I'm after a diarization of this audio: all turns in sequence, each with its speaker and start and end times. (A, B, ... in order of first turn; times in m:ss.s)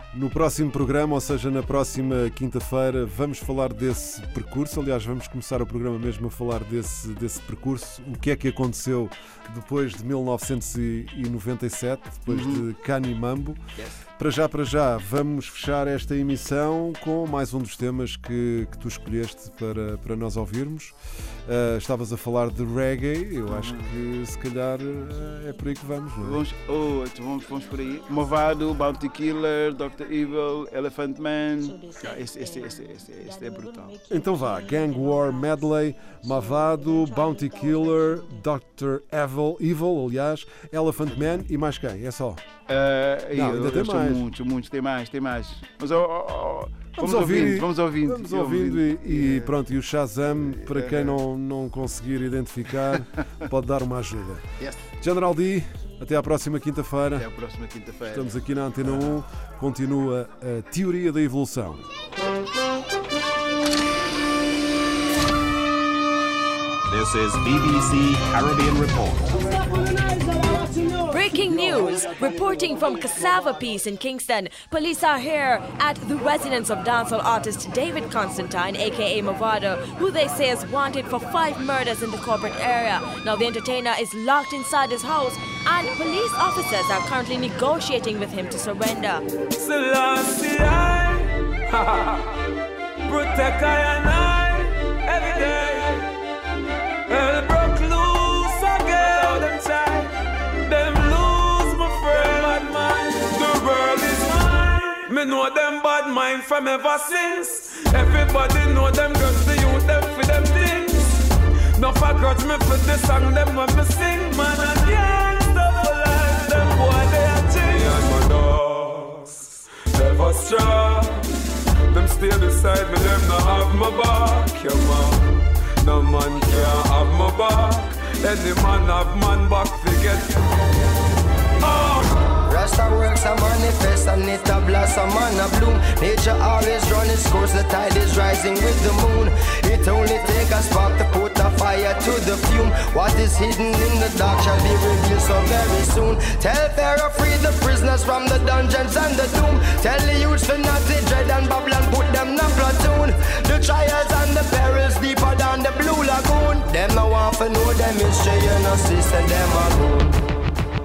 0:00.1-0:13.6 A
0:12.3-0:12.6 B
0:13.8-0:14.0 B
0:14.2-0:26.4 A
0:23.5-0:23.9 B
0:26.2-0:34.0 B
0:34.1-0:42.4 A
0:42.7-0:49.6 B
0:43.3-0:44.2 A
0:47.0-0:54.4 A
0:50.3-0:51.2 B
0:54.6-0:54.9 B
0:55.0-0:57.3 A
0:57.2-0:59.1 B
0:58.0-1:01.8 A
1:06.9-1:09.4 C
1:10.9-1:29.2 D
1:29.6-1:32.4 E
1:33.0-1:36.0 E
1:37.1-1:51.2 E
1:51.8-2:01.3 E
2:01.9-2:10.6 E
2:11.6-2:12.1 E
2:12.5-2:40.2 F